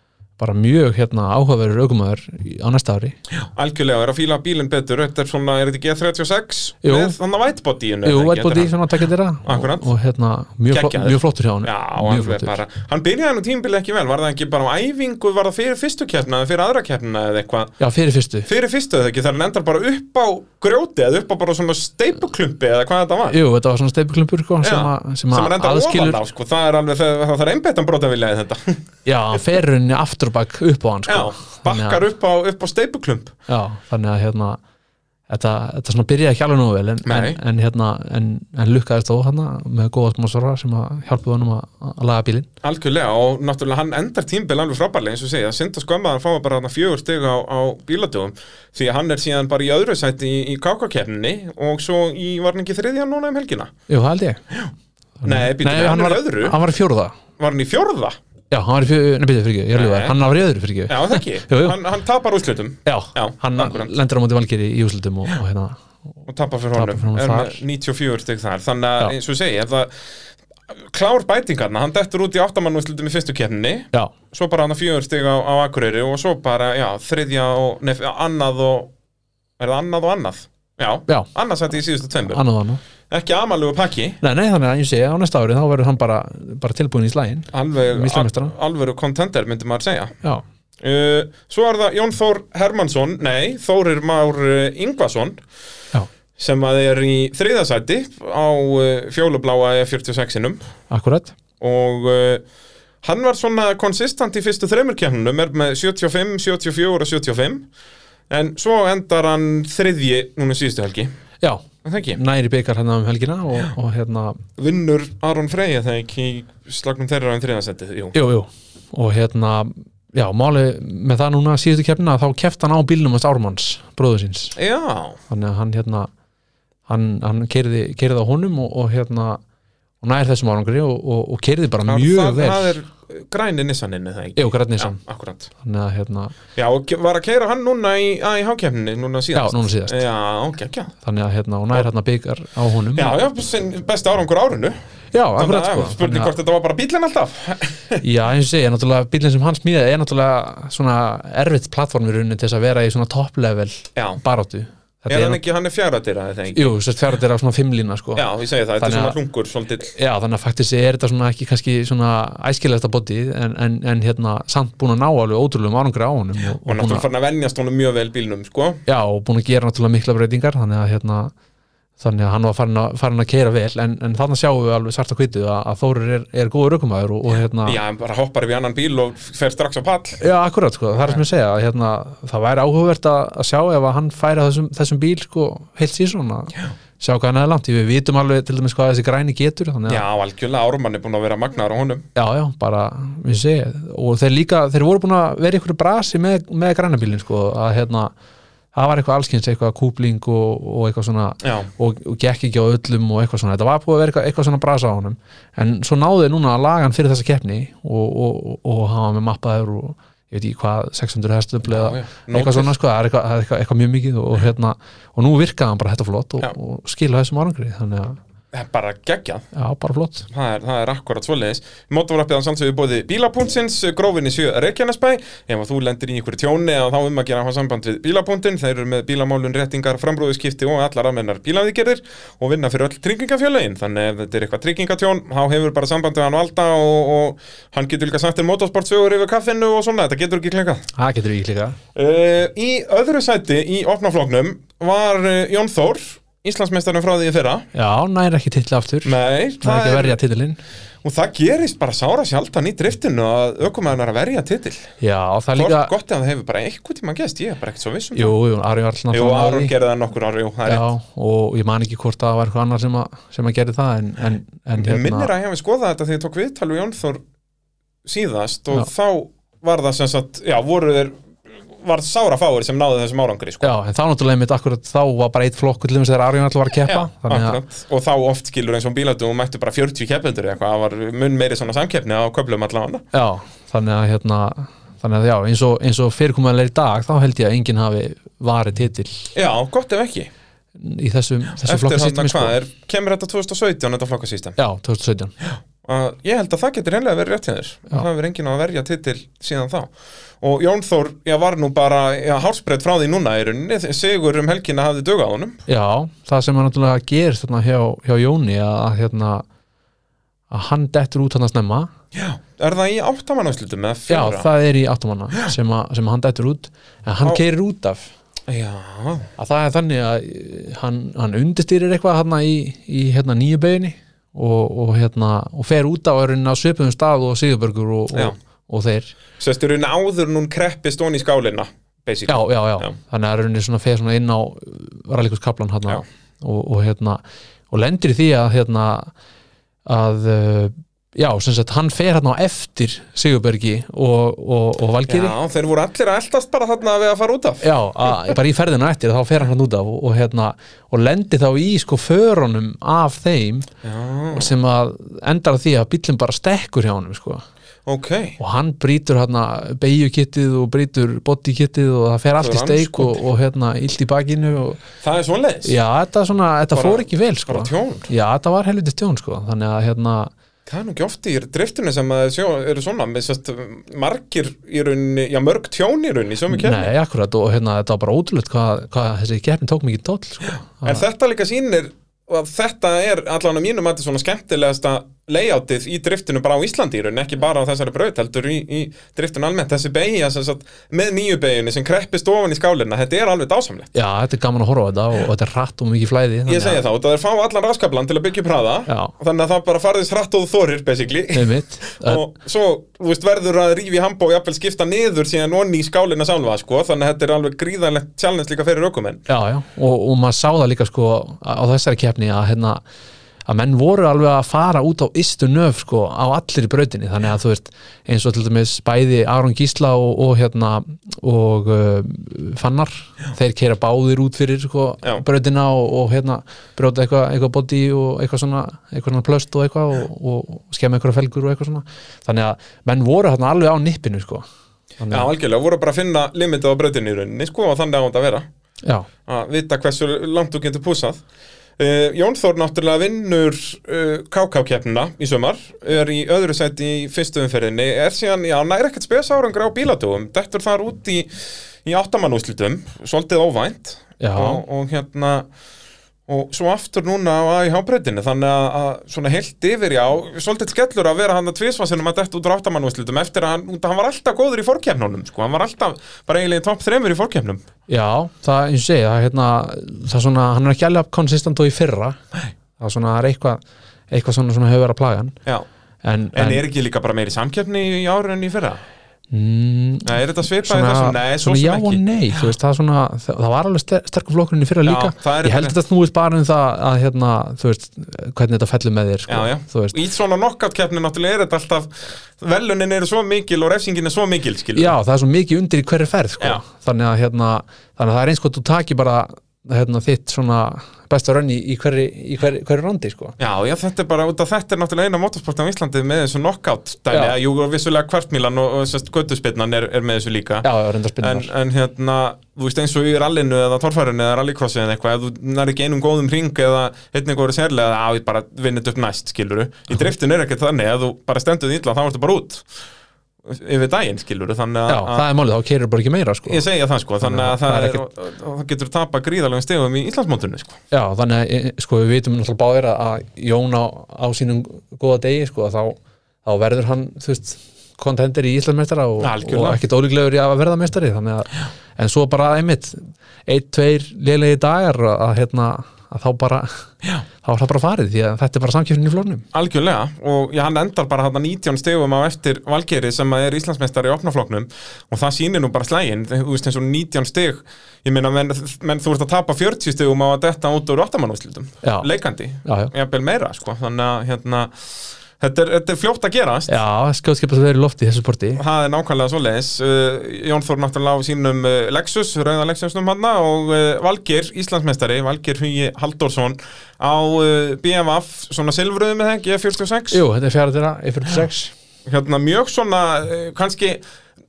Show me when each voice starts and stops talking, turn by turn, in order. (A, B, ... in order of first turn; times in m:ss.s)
0:00.4-0:03.2 A
0:03.3-0:08.7 B
0:06.8-0:07.1 A
0:08.0-0:12.6 A
0:09.4-0:09.9 B
0:10.7-0:17.8 B
0:17.8-0:18.5 A
0:18.4-0:23.4 B
0:23.3-0:26.2 A
0:24.6-0:28.8 B
0:29.0-0:32.0 A
0:31.1-0:33.3 B
0:33.5-0:34.6 A
0:35.3-0:42.5 A
0:37.0-0:37.4 B
0:42.6-0:53.7 B
0:53.9-0:54.4 A
0:55.2-0:57.2 A
0:55.2-0:56.6 B
0:57.4-0:58.1 B
0:58.5-1:01.8 A
0:59.7-1:00.2 B
1:00.9-1:03.9 B
1:02.8-1:05.8 A
1:06.3-1:09.9 B
1:06.7-1:07.6 A
1:10.9-1:18.9 B
1:19.6-1:22.4 B
1:22.2-1:22.8 A
1:23.1-1:24.2 B
1:24.2-1:28.5 A
1:27.5-1:30.1 B
1:30.8-1:35.4 B
1:36.4-1:40.6 B
1:40.9-1:41.3 A
1:41.6-1:42.4 B
1:43.0-1:47.7 B
1:48.3-1:51.1 B
1:51.4-1:54.4 A
1:51.8-1:52.2 B
1:54.6-1:58.1 B
1:58.1-2:04.6 A
2:04.6-2:05.2 B
2:05.3-2:06.1 A
2:06.9-2:09.4 A
2:10.0-2:12.8 A
2:11.9-2:15.5 B
2:14.4-2:15.0 A
2:15.6-2:16.3 A
2:16.6-2:20.9 B
2:19.3-2:20.0 A
2:21.0-2:23.2 A
2:23.0-2:24.7 B
2:25.1-2:26.3 A
2:25.4-2:28.0 B
2:28.0-2:35.4 A
2:34.0-2:34.2 B
2:35.1-2:36.7 B
2:36.5-2:38.2 A
2:38.2-2:39.9 B
2:38.8-2:39.2 A
2:39.9-2:47.0 A
2:46.6-2:48.8 B
2:48.9-2:51.3 A
2:52.0-2:57.8 A
2:57.6-3:00.2 B
3:00.2-3:10.0 A
3:09.9-3:12.0 B
3:12.1-3:18.1 A
3:18.7-3:38.2 A
3:21.4-3:21.7 B
3:31.7-3:32.7 B
3:38.5-3:39.4 B
3:39.5-3:40.3 A
3:40.3-4:00.9 B
4:01.0-4:01.8 A
4:02.0-4:07.7 B
4:07.7-4:10.6 A
4:09.0-4:10.2 B
4:11.0-4:14.9 B
4:15.0-4:15.9 A
4:15.6-4:18.3 B
4:18.1-4:19.7 A
4:19.1-4:20.9 B
4:20.7-4:25.3 A
4:24.8-4:27.2 B
4:28.0-4:31.2 B
4:31.7-4:33.7 B
4:33.6-4:37.6 A
4:36.9-4:43.0 B
4:43.1-4:49.3 A
4:49.3-4:50.3 B
4:50.8-4:52.6 A
4:51.6-4:54.6 B
4:54.6-4:55.3 A
4:55.4-5:05.6 B
5:05.7-5:09.4 A
5:10.5-5:11.9 A
5:12.1-5:14.5 B
5:14.1-5:18.1 A
5:18.5-5:19.3 B
5:19.4-5:29.1 A
5:29.4-5:32.9 B
5:32.3-5:39.1 A
5:39.9-5:45.4 A
5:45.1-5:48.3 B
5:47.6-5:53.7 A
5:53.8-5:54.5 B
5:54.3-5:57.4 A
5:57.9-5:58.4 B
5:58.4-6:04.8 A
6:02.4-6:03.2 B
6:05.0-6:05.7 B
6:05.6-6:10.3 A
6:06.7-6:08.1 B
6:10.7-6:16.9 B
6:16.5-6:21.0 A
6:20.4-6:33.9 B
6:33.9-6:36.8 A
6:36.5-6:49.2 B
6:38.9-6:39.1 A
6:41.3-6:42.2 A
6:49.3-6:52.8 A
6:53.4-7:14.4 A
7:15.0-7:15.3 A
7:15.1-7:18.4 B
7:18.8-7:19.1 A
7:19.3-7:21.2 B
7:21.8-7:35.5 B
7:34.2-7:34.6 A
7:36.3-7:47.6 B
7:47.9-7:52.2 A
7:52.8-7:55.3 A
7:56.0-7:56.6 A
7:56.3-7:58.8 B
7:59.3-8:10.0 A
8:00.0-8:02.5 B
8:04.8-8:05.7 B
8:09.3-8:15.0 B
8:14.7-8:23.4 A
8:23.4-8:30.7 B
8:27.1-8:27.4 A
8:30.6-8:31.5 A
8:31.2-8:42.7 B
8:43.4-8:45.2 B
8:44.9-8:46.6 A
8:46.5-8:50.8 B
8:47.2-8:48.0 A
8:50.9-9:06.9 A
8:59.2-8:59.8 B
9:07.4-9:09.4 A
9:09.5-9:26.7 B
9:21.8-9:22.1 A
9:22.6-9:22.9 A
9:26.7-9:28.6 A
9:28.6-9:40.2 B
9:40.1-9:41.7 A
9:42.0-9:44.0 B